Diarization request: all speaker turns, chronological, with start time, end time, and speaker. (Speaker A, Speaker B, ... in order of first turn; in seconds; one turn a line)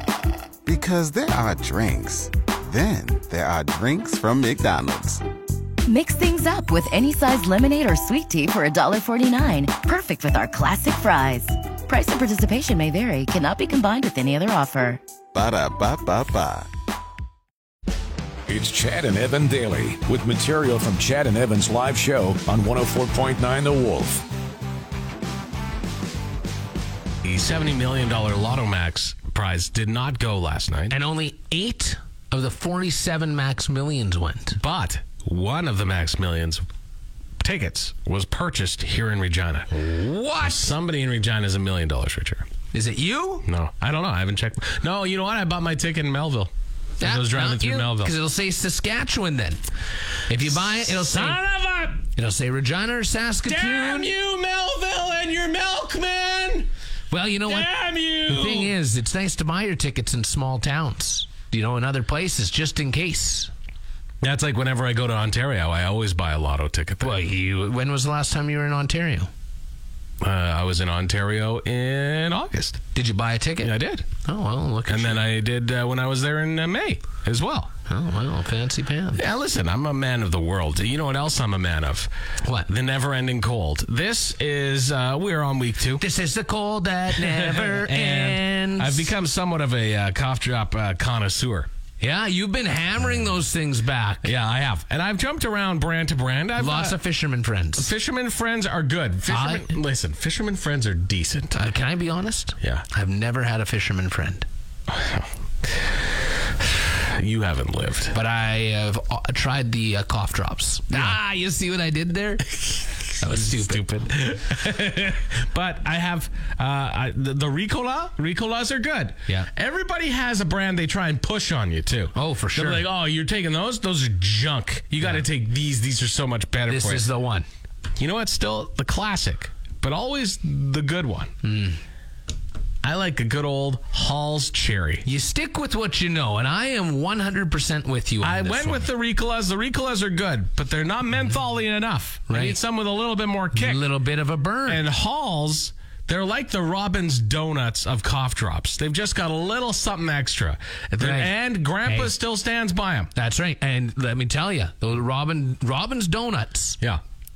Speaker A: 0.7-5.2
Speaker B: 5.9-15.0
Speaker A: 15.3-16.7
Speaker C: 18.5-24.2
Speaker D: 27.2-31.0
Speaker E: 30.9-34.6
Speaker D: 34.6-36.6
Speaker D: 37.4-39.7
Speaker E: 39.7-40.7
Speaker D: 40.4-42.5
Speaker E: 42.7-43.5
Speaker D: 43.5-48.1
Speaker E: 47.0-49.6
Speaker E: 50.3-51.4
Speaker D: 50.8-52.0
Speaker E: 52.1-54.1
Speaker D: 53.5-56.7
Speaker E: 57.1-57.7
Speaker D: 57.5-58.7
Speaker E: 58.2-63.5
Speaker D: 64.2-67.1
Speaker E: 67.0-69.3
Speaker D: 70.2-72.8
Speaker E: 72.9-75.2
Speaker D: 73.6-74.1
Speaker D: 74.9-77.7
Speaker E: 77.9-79.2
Speaker D: 79.2-82.1
Speaker E: 82.4-82.7
Speaker D: 82.7-86.0
Speaker E: 86.0-89.1
Speaker D: 87.1-91.7
Speaker E: 92.0-94.3
Speaker D: 94.2-97.0
Speaker E: 96.6-97.9
Speaker D: 97.8-101.6
Speaker E: 99.3-99.8
Speaker E: 101.5-104.5
Speaker D: 104.9-105.9
Speaker D: 106.8-108.2
Speaker E: 108.1-112.5
Speaker D: 110.9-111.2
Speaker E: 113.2-114.1
Speaker D: 113.2-127.1
Speaker E: 122.1-122.8
Speaker E: 126.7-127.5
Speaker D: 128.0-131.3
Speaker E: 131.4-131.8
Speaker D: 132.8-135.1
Speaker E: 135.0-138.9
Speaker D: 138.2-143.8
Speaker E: 142.3-142.6
Speaker E: 143.5-144.8
Speaker D: 144.7-153.1
Speaker E: 151.0-152.2
Speaker E: 153.1-156.8